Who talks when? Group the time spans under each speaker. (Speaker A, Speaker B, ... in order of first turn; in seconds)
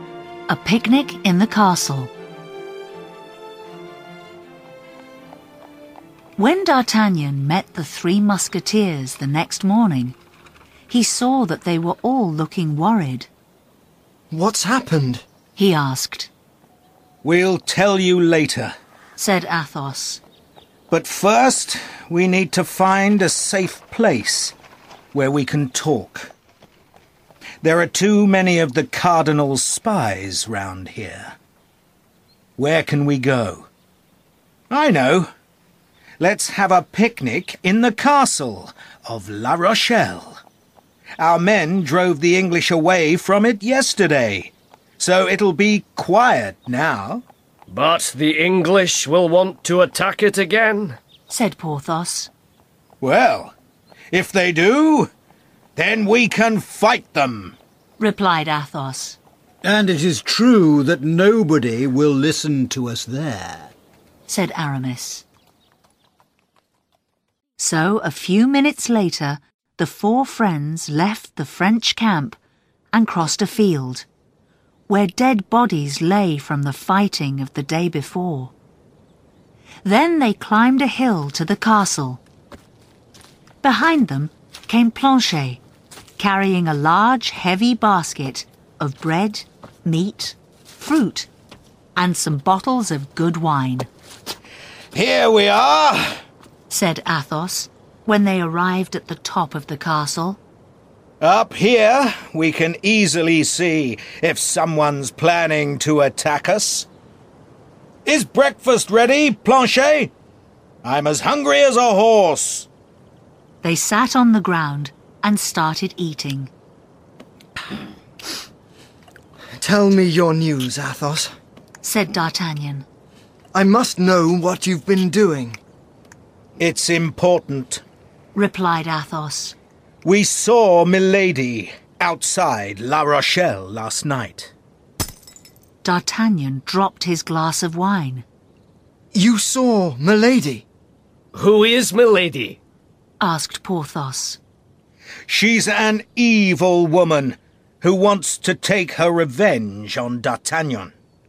Speaker A: 0.5-2.1, 6.4-10.2, 10.9-13.3, 15.6-16.3, 19.2-20.2, 51.3-52.3, 58.0-59.2, 64.3-65.2, 67.6-72.4, 72.9-74.1, 74.9-78.5, 79.8-82.2, 83.6-85.6, 86.2-91.3, 92.0-93.9, 96.7-100.4, 113.6-116.5, 121.8-122.9, 128.3-129.6, 135.8-138.2, 143.2-144.4
Speaker B: 14.3-15.2, 119.6-121.3, 123.5-125.6, 139.1-140.7
Speaker C: 17.2-18.7, 20.9-24.6, 25.1-26.3, 27.6-31.4, 32.6-33.7, 34.7-35.3, 36.2-40.4, 41.2-47.2, 53.0-53.5, 54.1-55.1, 55.8-57.6, 94.9-96.2, 101.2-106.9, 108.0-110.1, 110.8-112.7, 126.6-127.8, 130.0-134.5, 145.3-150.9
Speaker D: 47.7-51.0, 141.3-142.6
Speaker E: 59.6-63.7